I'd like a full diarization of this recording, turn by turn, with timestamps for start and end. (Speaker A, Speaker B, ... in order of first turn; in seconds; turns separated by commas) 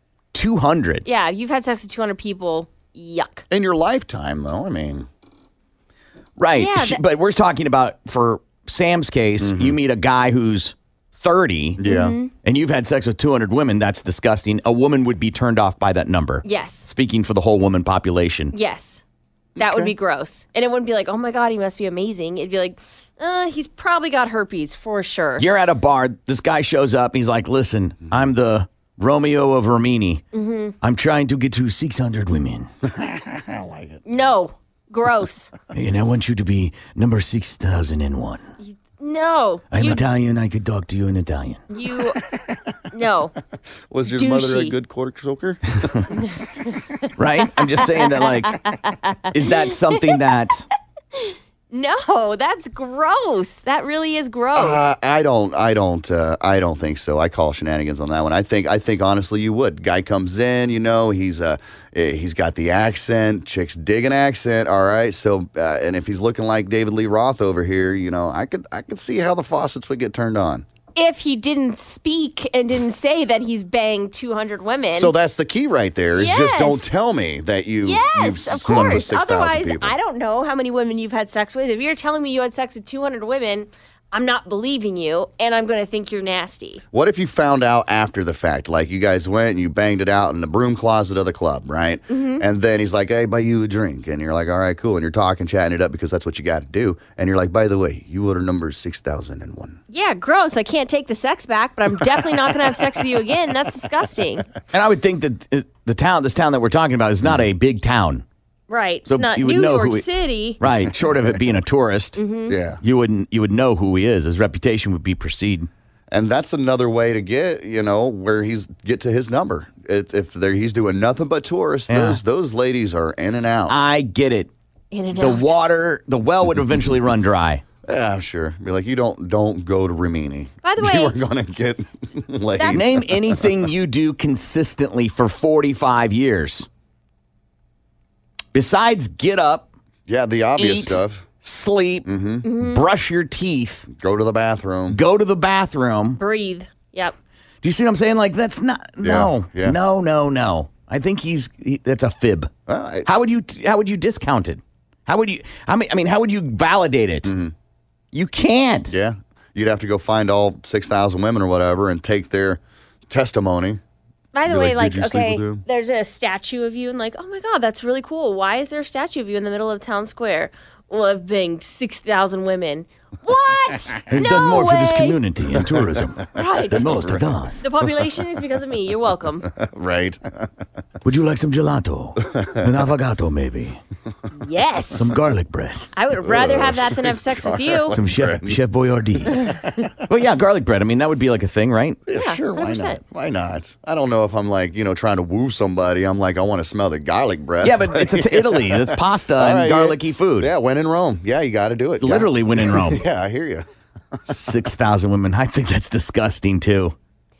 Speaker A: 0.3-1.1, Speaker B: 1.0-3.4, Speaker C: 3.5-5.1, Speaker A: 6.4-11.8, Speaker B: 6.6-7.0, Speaker C: 9.4-9.8, Speaker C: 11.8-12.1, Speaker B: 11.8-12.3, Speaker A: 12.4-18.5, Speaker B: 16.4-16.9, Speaker B: 18.5-19.0, Speaker C: 19.6-19.9, Speaker B: 19.6-25.4, Speaker A: 25.4-30.2, Speaker B: 30.3-30.7, Speaker A: 30.8-32.7, Speaker C: 32.8-34.0, Speaker B: 34.0-35.5, Speaker A: 35.7-38.5, Speaker B: 38.6-40.0, Speaker A: 39.7-41.6, Speaker B: 41.7-42.2, Speaker B: 42.9-43.3, Speaker C: 43.9-45.8, Speaker B: 44.1-44.7, Speaker A: 47.2-48.6, Speaker B: 48.2-49.3, Speaker A: 49.3-50.7, Speaker B: 49.9-50.2, Speaker B: 51.1-54.9, Speaker C: 54.5-70.6, Speaker B: 70.9-75.1, Speaker C: 74.9-79.9, Speaker B: 76.2-76.9, Speaker B: 77.8-86.8, Speaker C: 86.9-99.8, Speaker B: 92.1-92.4, Speaker B: 99.9-104.5, Speaker A: 104.7-108.2, Speaker B: 108.7-110.6, Speaker A: 109.0-110.1, Speaker A: 110.6-112.2, Speaker B: 112.2-112.5, Speaker C: 112.5-112.8, Speaker A: 112.8-115.7, Speaker C: 116.1-123.8, Speaker A: 121.9-122.2, Speaker A: 123.7-124.5, Speaker B: 124.9-125.5, Speaker A: 125.2-127.6, Speaker C: 127.8-133.5, Speaker B: 130.6-131.1, Speaker A: 132.7-136.7, Speaker A: 138.5-139.7, Speaker C: 140.1-141.3, Speaker A: 140.6-143.9, Speaker C: 142.0-142.4, Speaker B: 142.4-142.8, Speaker C: 143.9-145.0, Speaker A: 144.9-146.2, Speaker B: 146.2-147.1, Speaker A: 147.6-152.5, Speaker C: 149.0-149.8, Speaker C: 152.7-153.1, Speaker A: 153.0-157.3, Speaker C: 157.2-157.5, Speaker A: 158.1-158.9, Speaker C: 158.9-163.8, Speaker B: 164.3-175.2, Speaker C: 164.5-165.6, Speaker A: 174.1-177.6, Speaker B: 176.3-176.8, Speaker C: 176.7-177.3, Speaker B: 177.6-179.5, Speaker C: 179.5-180.4, Speaker A: 181.0-183.8, Speaker C: 182.3-182.7, Speaker B: 184.3-185.1, Speaker A: 184.9-185.9, Speaker B: 185.9-187.9, Speaker C: 186.2-188.6, Speaker A: 187.9-189.5, Speaker A: 190.1-192.0, Speaker C: 192.1-203.7, Speaker B: 192.2-193.0, Speaker A: 197.6-200.5, Speaker A: 202.0-203.0, Speaker A: 204.2-206.9